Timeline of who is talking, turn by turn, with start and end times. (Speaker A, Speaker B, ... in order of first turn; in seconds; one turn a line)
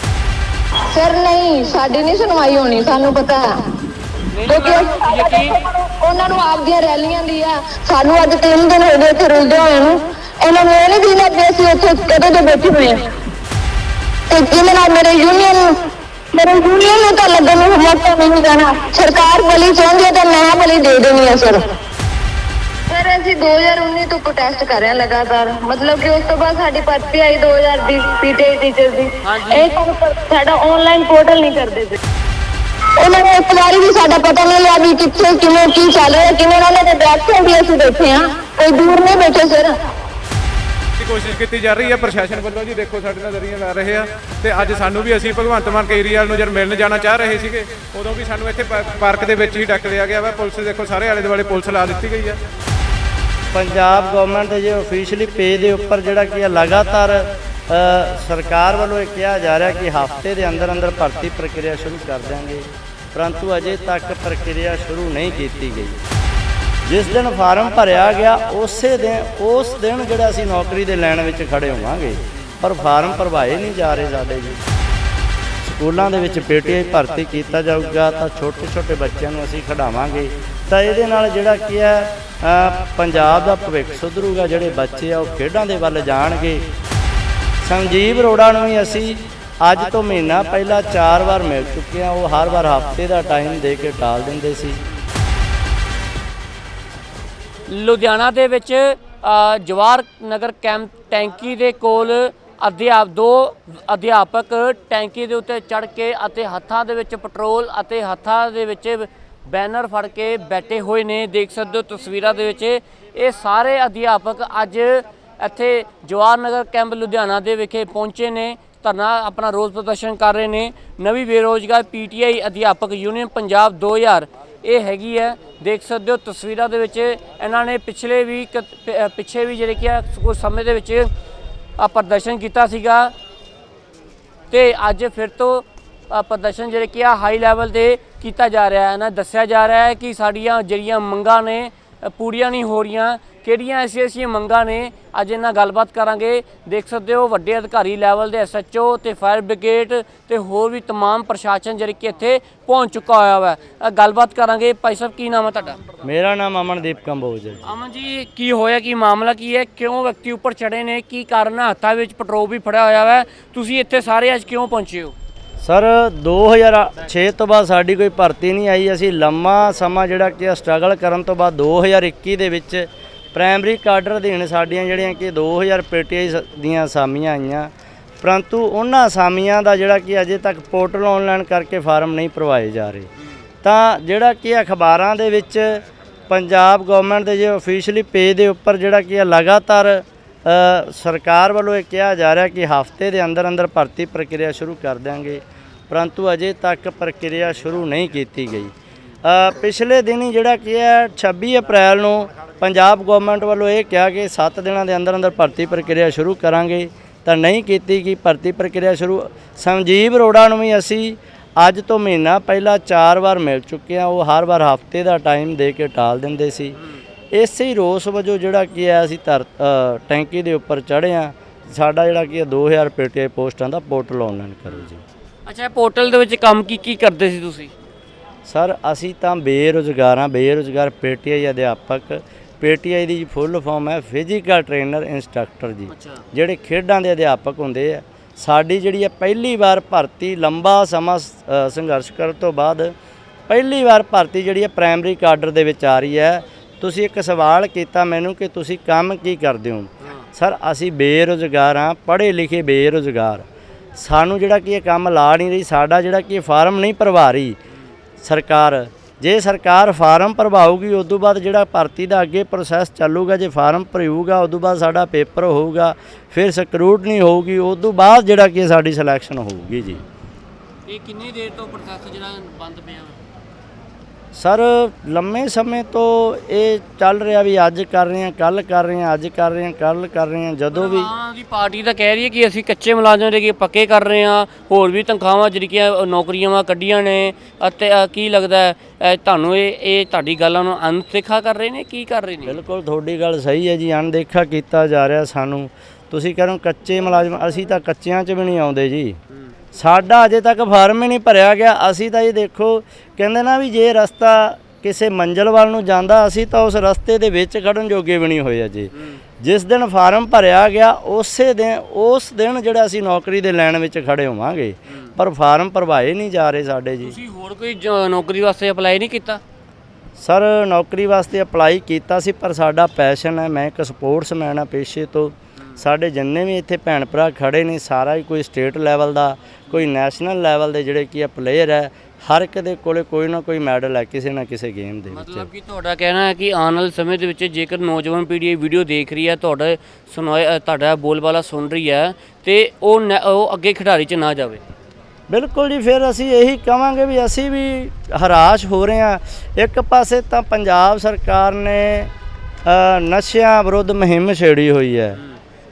Speaker A: 0.9-3.5
Speaker B: 4.3-5.6
Speaker A: 4.5-13.0
Speaker A: 14.3-15.7
Speaker A: 16.3-21.7
Speaker A: 22.9-32.0
Speaker B: 29.2-29.8
Speaker A: 33.0-39.7
Speaker C: 41.0-52.4
Speaker D: 53.5-66.0
Speaker D: 66.8-74.6
Speaker D: 75.6-86.7
Speaker D: 87.6-94.8
Speaker B: 97.7-131.1
Speaker B: 131.8-133.1
Speaker B: 134.5-155.8
Speaker D: 156.0-157.6
Speaker B: 157.6-165.1
Speaker D: 165.6-177.7
Speaker D: 178.2-183.1
Speaker D: 183.6-198.7
Speaker D: 199.2-216.8
Speaker B: 216.7-217.0
Speaker D: 217.3-225.0
Speaker B: 225.4-227.7
Speaker D: 228.4-242.9
Speaker B: 235.9-236.2
Speaker D: 243.5-257.6
Speaker B: 250.0-250.3
Speaker D: 258.2-270.0
Speaker B: 270.9-273.2
Speaker D: 274.3-281.1
Speaker B: 280.7-292.6
Speaker D: 292.4-299.2
Speaker D: 299.7-317.1
Speaker B: 308.9-309.2
Speaker B: 317.0-319.4
Speaker D: 320.2-335.5
Speaker B: 335.1-344.6
Speaker D: 345.3-352.1
Speaker D: 352.6-355.2